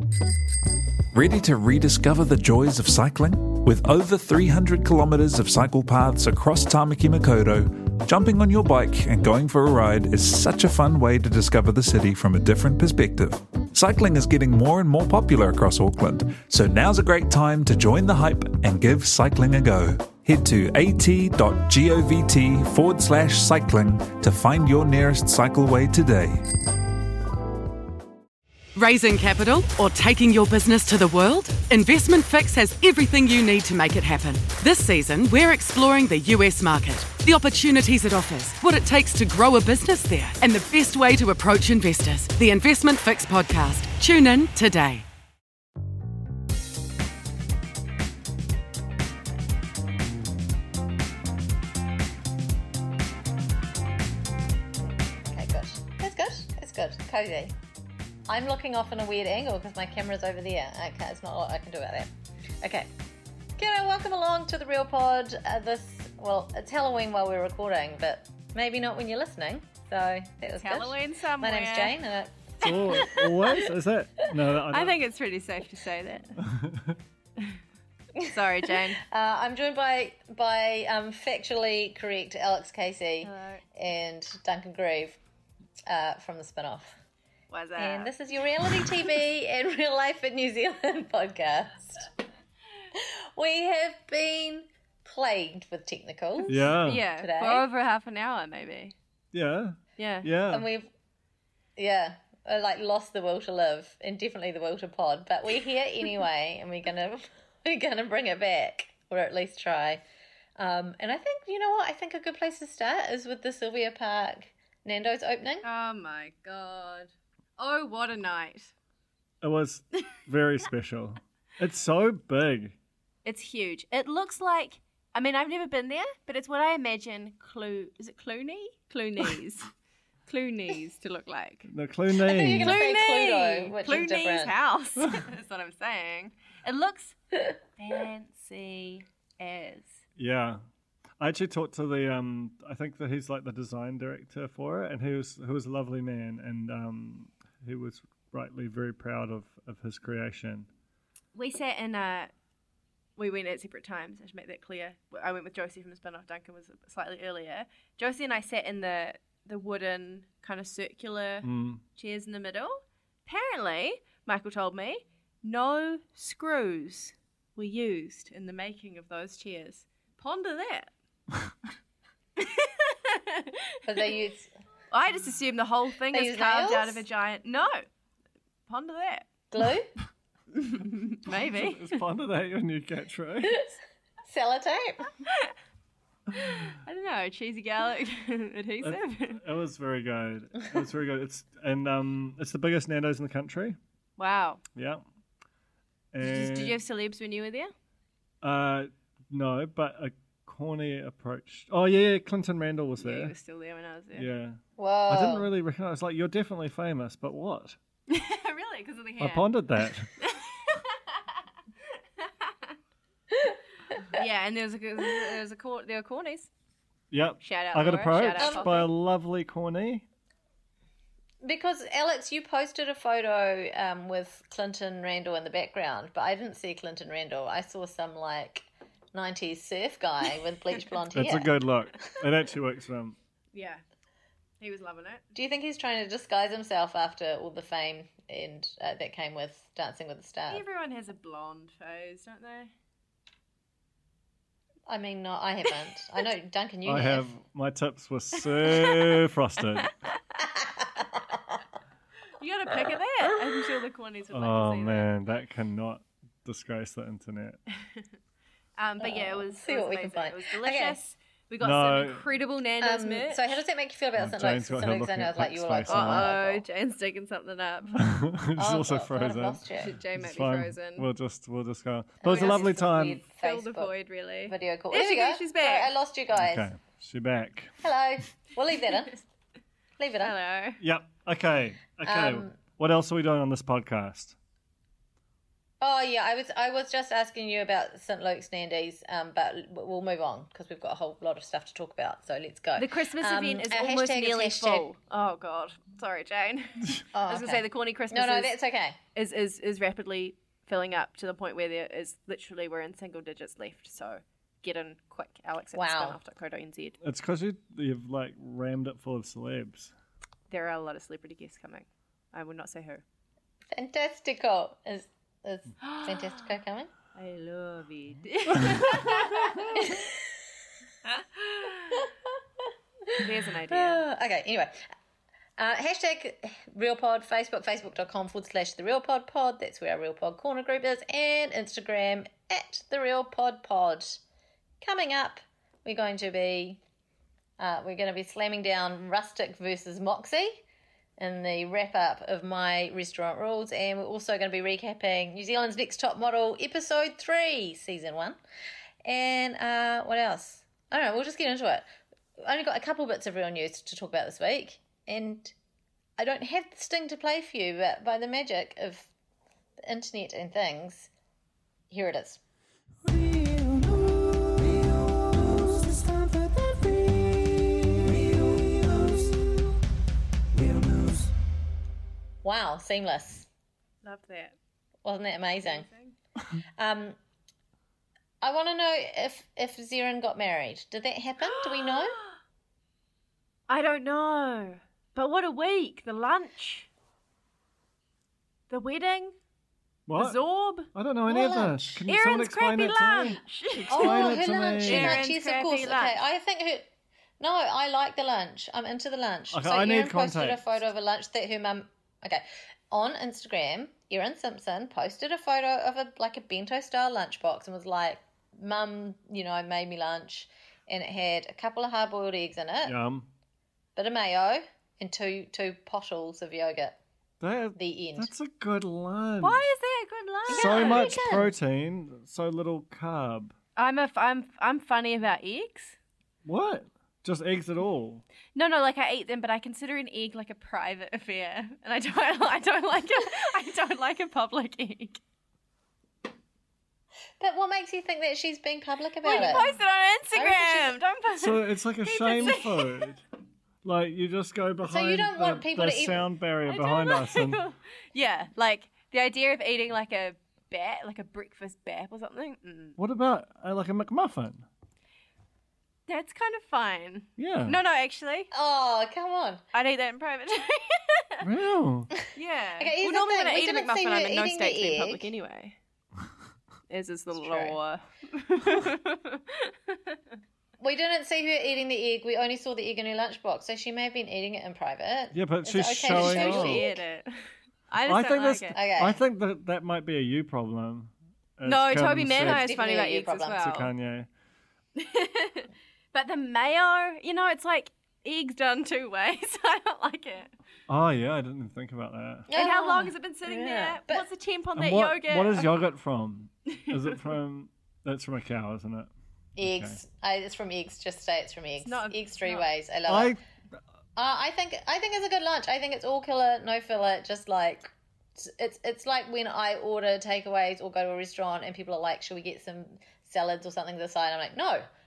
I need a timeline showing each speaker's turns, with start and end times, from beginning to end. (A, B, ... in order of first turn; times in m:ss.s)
0:01.1-0:26.4 A
0:28.8-0:45.0 B
0:55.2-0:57.6 C
0:58.3-1:02.9 C
1:03.6-1:14.2 C
1:10.6-1:12.0 D
1:12.6-1:15.0 E
1:12.7-1:13.3 D
1:14.7-1:16.4 D
1:16.4-1:17.0 E
1:18.2-1:25.2 C
1:18.3-1:19.0 D
1:23.2-1:23.6 D
1:25.9-1:27.0 C
1:27.5-1:28.1 D
1:27.8-1:32.1 C
1:32.9-1:37.7 C
1:36.5-1:37.0 E
1:36.8-1:39.0 D
1:39.3-1:40.7 E
1:40.0-1:40.3 D
1:40.5-1:40.9 C
1:41.8-1:50.0 C
1:50.6-1:55.7 C
1:55.6-1:58.7 D
1:59.4-2:02.8 E
2:03.2-2:09.7 D
2:10.3-2:11.7 D
2:11.7-2:12.8 E
2:12.2-2:14.6 C
2:12.4-2:17.2 D
2:17.8-2:19.9 D
2:20.2-2:20.6 E
2:21.2-2:30.7 E
2:31.4-2:32.3 D
2:33.2-2:50.9 D
2:41.4-2:41.8 E
2:52.4-2:53.8 D
2:53.9-2:54.5 C
2:54.9-2:57.9 D
2:56.1-2:57.0 C
2:58.7-2:59.3 D
2:59.5-2:59.9 C
3:00.6-3:02.0 D
3:01.3-3:03.6 E
3:03.4-3:03.7 C
3:04.3-3:05.1 C
3:06.3-3:09.4 D
3:08.8-3:13.8 E
3:14.2-3:14.6 D
3:14.8-3:15.0 E
3:16.1-3:16.8 E
3:16.2-3:17.7 D
3:18.4-3:23.3 E
3:23.0-3:24.3 D
3:24.2-3:27.8 E
3:24.8-3:25.5 C
3:28.1-3:29.5 D
3:29.2-3:30.1 E
3:30.2-3:31.2 D
3:32.2-3:32.7 D
3:34.1-3:36.5 D
3:37.1-3:40.0 E
3:37.4-3:38.9 D
3:38.4-3:38.8 C
3:41.4-3:51.6 C
3:51.1-3:53.2 E
3:53.5-3:53.8 D
3:54.6-3:55.2 D
3:55.3-4:00.6 C
4:00.5-4:02.7 D
4:04.9-4:07.3 C
4:06.8-4:09.9 E
4:08.7-4:09.0 D
4:10.4-4:11.6 C
4:12.4-4:15.1 D
4:14.3-4:17.6 E
4:18.8-4:23.6 D
4:19.0-4:21.0 C
4:21.6-4:22.2 E
4:22.8-4:26.6 C
4:24.2-4:26.4 E
4:25.9-4:28.0 D
4:28.0-4:33.2 E
4:28.6-4:30.0 C
4:29.8-4:31.1 D
4:32.2-4:33.9 C
4:32.3-4:35.9 D
4:34.5-4:36.7 C
4:36.4-4:37.7 E
4:37.8-4:39.2 C
4:40.0-4:40.4 C
4:40.2-4:40.8 D
4:40.8-4:44.4 E
4:42.0-4:42.6 C
4:45.8-4:54.9 C
4:52.8-4:58.6 D
4:57.1-4:59.0 C
4:59.1-5:07.0 D
5:05.8-5:06.2 C
5:07.0-5:09.9 E
5:10.5-5:13.0 D
5:13.7-5:16.9 C
5:15.8-5:16.5 D
5:17.2-5:20.0 D
5:19.5-5:20.3 C
5:21.1-5:22.1 D
5:21.9-5:24.8 C
5:23.2-5:24.0 D
5:25.6-5:34.2 C
5:34.8-5:36.8 C
5:37.6-5:40.6 C
5:41.2-5:48.4 C
5:49.0-5:55.5 C
5:56.2-5:59.1 C
5:59.8-6:01.1 C
6:01.9-6:02.4 C
6:03.1-6:04.1 E
6:05.9-6:07.2 E
6:10.6-6:11.1 E
6:12.4-6:13.5 C
6:14.0-6:14.6 D
6:15.0-6:15.9 C
6:15.6-6:16.2 D
6:16.8-6:17.2 C
6:18.4-6:22.2 C
6:21.4-6:22.4 D
6:23.7-6:26.9 D
6:28.7-6:29.4 D
6:30.1-6:35.2 E
6:30.2-6:30.9 D
6:31.3-6:32.1 C
6:32.1-6:36.2 D
6:33.9-6:36.9 C
6:37.4-6:53.0 C
6:39.5-6:40.6 E
6:52.8-6:53.3 E
6:54.0-6:57.0 C
6:57.4-6:59.7 E
6:57.8-6:58.3 C
6:59.4-7:01.2 D
7:00.5-7:01.5 C
7:00.5-7:03.5 E
7:03.8-7:06.0 D
7:06.4-7:08.2 E
7:08.6-7:15.2 D
7:17.4-7:19.7 C
7:19.2-7:23.1 D
7:20.3-7:21.0 C
7:21.4-7:23.2 E
7:23.8-7:27.6 E
7:24.8-7:26.3 C
7:26.7-7:33.0 D
7:33.0-7:34.7 E
7:36.1-7:38.5 D
7:37.4-7:37.8 E
7:38.5-7:39.6 C
7:39.7-7:41.4 D
7:41.4-7:42.1 E
7:42.3-7:45.8 D
7:42.8-7:45.3 C
7:46.9-7:50.2 D
7:47.4-7:47.8 C
7:50.8-7:57.0 C
7:55.3-7:56.9 E
7:56.1-7:57.3 D
7:57.9-7:58.8 D
7:58.1-8:02.7 E
7:58.7-7:59.2 C
8:01.6-8:03.9 D
8:02.4-8:03.7 C
8:03.6-8:04.3 E
8:05.0-8:10.5 D
8:10.9-8:12.5 E
8:12.5-8:14.3 C
8:12.5-8:15.7 D
8:14.8-8:20.0 E
8:16.8-8:17.2 D
8:19.6-8:23.4 C
8:21.8-8:22.7 D
8:23.1-8:23.4 E
8:24.2-8:34.9 C